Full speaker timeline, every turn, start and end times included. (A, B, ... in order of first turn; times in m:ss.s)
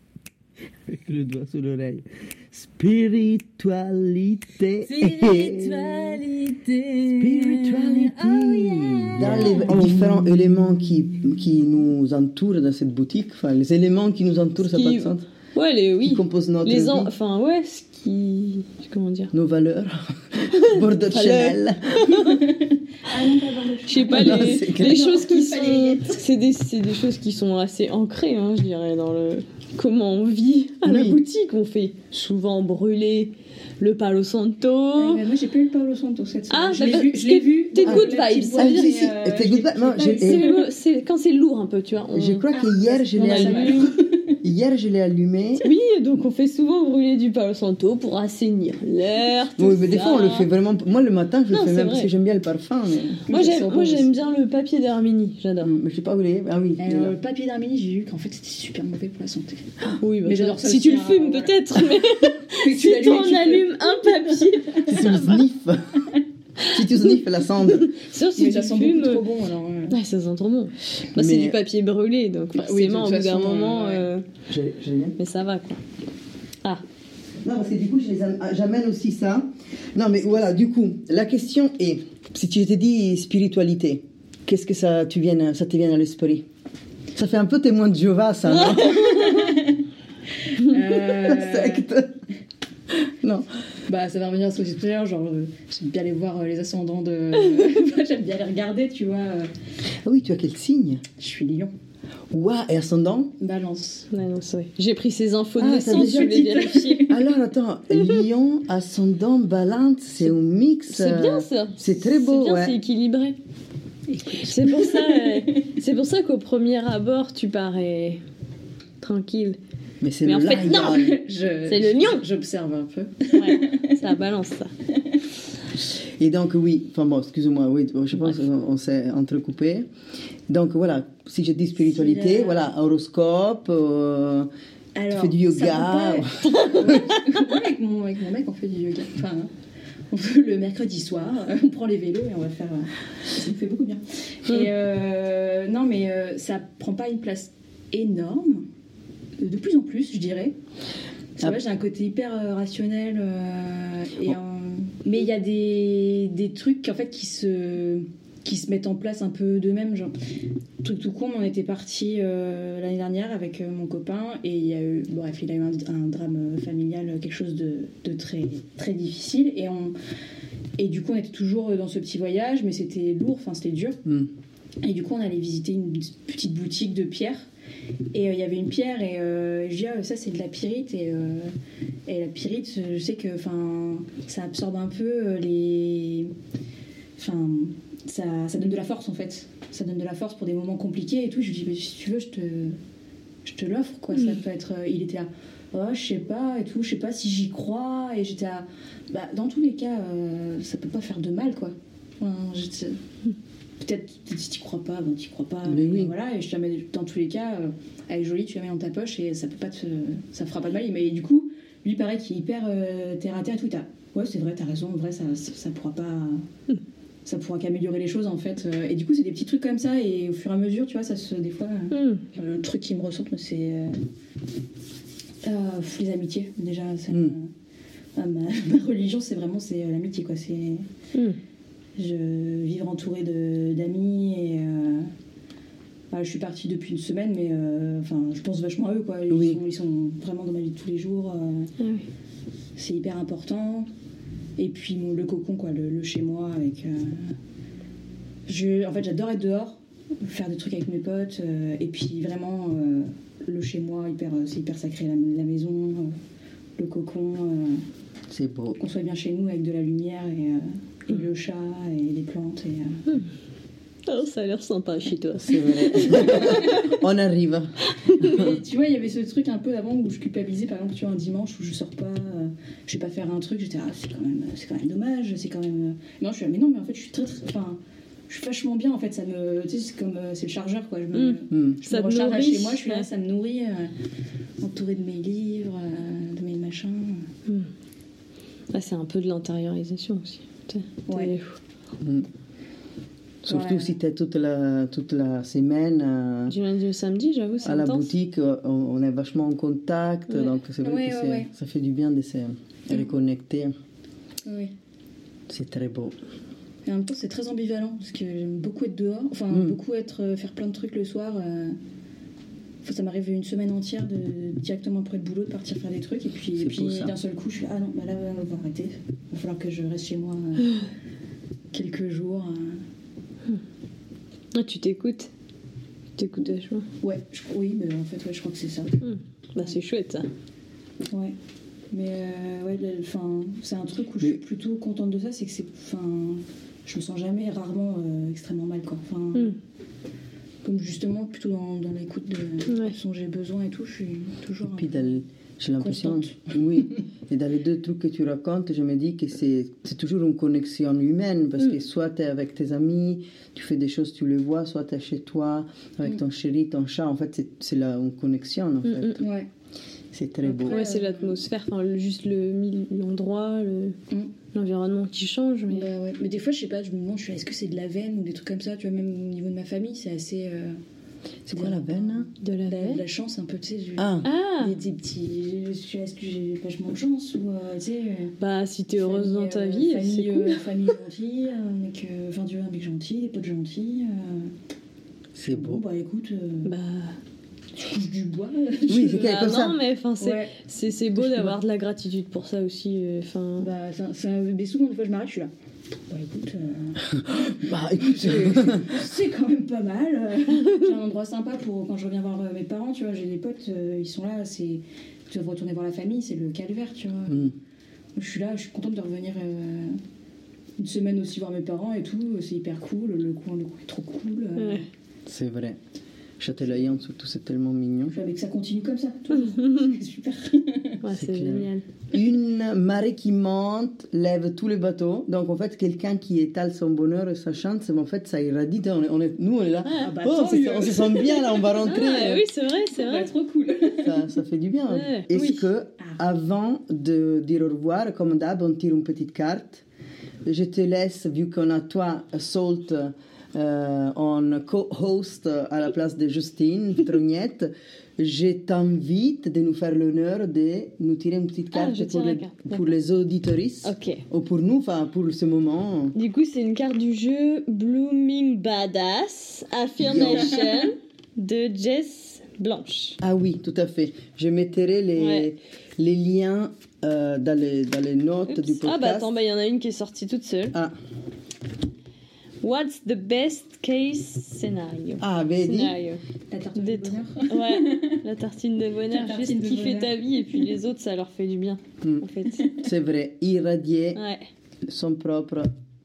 0:00.9-0:06.0 A
0:04.8-0:10.1 B
0:07.2-0:15.2 A
0:14.6-0:19.3 B
0:16.0-0:17.1 A
0:19.3-0:22.3 A
0:20.5-0:22.4 B
0:22.5-0:26.2 C
0:23.9-0:35.2 B
0:24.1-0:25.1 A
0:30.8-0:31.2 A
0:34.9-0:40.7 C
0:36.5-0:39.1 B
0:37.8-0:40.5 A
0:40.0-0:42.5 B
0:42.1-0:43.8 A
0:42.5-0:44.4 C
0:43.1-0:43.9 B
0:44.4-0:45.7 A
0:45.6-0:50.5 B
0:49.6-0:53.2 A
0:51.5-0:52.1 B
0:53.3-0:54.1 C
0:53.3-0:55.7 B
0:55.6-0:57.1 A
0:56.8-1:04.8 C
1:00.0-1:05.4 B
1:04.8-1:06.1 A
1:06.6-1:07.9 A
1:07.7-1:09.2 B
1:08.3-1:10.0 C
1:09.9-1:14.2 B
1:11.1-1:11.6 A
1:12.5-1:14.0 C
1:14.5-1:15.2 A
1:15.2-1:15.8 B
1:17.4-1:26.4 A
1:27.1-1:29.3 A
1:28.6-1:29.5 B
1:29.1-1:29.8 C
1:30.5-1:31.9 C
1:31.0-1:32.2 A
1:32.9-1:33.5 A
1:33.9-1:39.5 C
1:40.0-1:41.0 A
1:41.2-1:41.7 C
1:42.3-1:43.3 A
1:43.4-1:44.1 C
1:44.1-1:47.1 B
1:45.6-1:46.5 A
1:45.9-1:47.2 C
1:47.1-1:52.8 A
1:50.9-1:53.4 B
1:54.1-1:55.7 C
1:54.4-1:58.2 B
1:59.0-1:59.6 B
2:00.0-2:01.2 A
2:00.2-2:01.1 B
2:00.5-2:04.0 C
2:01.7-2:02.2 B
2:03.3-2:04.7 B
2:06.2-2:09.9 A
2:10.5-2:14.5 A
2:11.8-2:12.7 C
2:14.9-2:19.5 C
2:15.1-2:17.0 A
2:16.5-2:16.9 B
2:20.1-2:28.6 C
2:29.4-2:30.5 C
2:31.4-2:40.2 C
2:40.8-2:49.9 C
2:50.8-2:54.0 C
2:54.8-2:57.5 C
2:58.1-3:01.5 C
3:02.1-3:06.3 C
3:07.2-3:12.8 C
3:13.4-3:23.0 C
3:23.8-3:36.4 C
3:25.6-3:26.1 A
3:37.2-3:44.0 C
3:41.9-3:42.2 B
3:45.4-3:47.5 C
3:48.2-3:50.8 C
3:52.0-3:55.1 C
3:56.1-4:01.7 C
3:59.3-3:59.6 A
4:02.8-4:03.9 C
4:04.6-4:07.3 C
4:08.5-4:16.1 C
4:16.8-4:17.8 C
4:18.3-4:18.8 A
4:18.8-4:23.0 C
4:24.1-4:26.9 B
4:25.4-4:28.5 A
4:26.2-4:26.8 C
4:28.2-4:43.9 C
4:41.1-4:43.0 B
4:41.5-4:41.8 A
4:44.6-4:47.3 C
4:48.7-4:51.6 B
4:51.1-4:51.3 C
4:52.0-4:52.3 A
4:53.4-4:56.5 A
4:53.4-4:53.9 C
4:56.5-4:58.1 B
4:57.6-5:03.7 A
5:00.8-5:01.5 C
5:04.4-5:04.7 C
5:05.5-5:06.2 A
5:06.8-5:11.8 C
5:12.8-5:20.8 C
5:16.6-5:17.1 A
5:21.7-5:22.8 C
5:24.5-5:25.3 B
5:26.2-5:26.8 B
5:27.0-5:28.9 C
5:29.0-5:30.3 B
5:31.9-5:39.5 C
5:40.6-5:45.2 C
5:44.7-5:59.2 A
5:45.8-5:46.5 C
5:58.8-5:59.2 B
5:59.2-5:59.5 C
6:00.1-6:00.8 A
6:00.4-6:01.4 C
6:00.7-6:04.0 B
6:04.5-6:05.9 B
6:05.7-6:10.8 C
6:11.4-6:12.3 A
6:11.5-6:18.4 C
6:12.4-6:13.0 B
6:14.0-6:14.3 A
6:14.2-6:14.7 B
6:18.4-6:20.6 B
6:19.0-6:24.5 C
6:25.4-6:25.8 A
6:25.4-6:26.7 C
6:26.6-6:27.2 B
6:27.8-6:29.2 C
6:28.9-6:29.8 A
6:28.9-6:33.7 B
6:30.2-6:30.5 C
6:31.2-6:31.5 C
6:33.6-6:35.5 C
6:36.1-6:37.1 C
6:37.1-6:38.9 A
6:37.8-6:47.5 C
6:48.2-6:50.0 C
6:50.8-6:54.8 C
6:54.6-6:54.8 B
6:55.3-6:55.8 A
6:56.4-6:58.1 A
6:58.1-7:01.0 C
6:59.4-6:59.9 B
7:01.0-7:01.8 B
7:01.1-7:12.4 A
7:09.8-7:10.1 B
7:10.0-7:11.7 C
7:11.8-7:13.3 B
7:12.9-7:14.2 C
7:14.0-7:19.8 A
7:14.9-7:15.7 B
7:20.4-7:36.1 A
7:31.7-7:32.9 B
7:33.8-7:34.2 B
7:36.1-7:43.2 B
7:40.0-7:40.6 A
7:43.2-7:49.3 A
7:45.2-7:45.5 B
7:48.5-7:50.7 B
7:52.6-7:56.2 B
7:55.2-7:56.0 A
7:56.5-7:58.2 C
7:56.8-8:02.7 B
7:59.1-8:00.7 C
8:02.8-8:04.2 A
8:04.1-8:04.5 B
8:04.8-8:05.7 A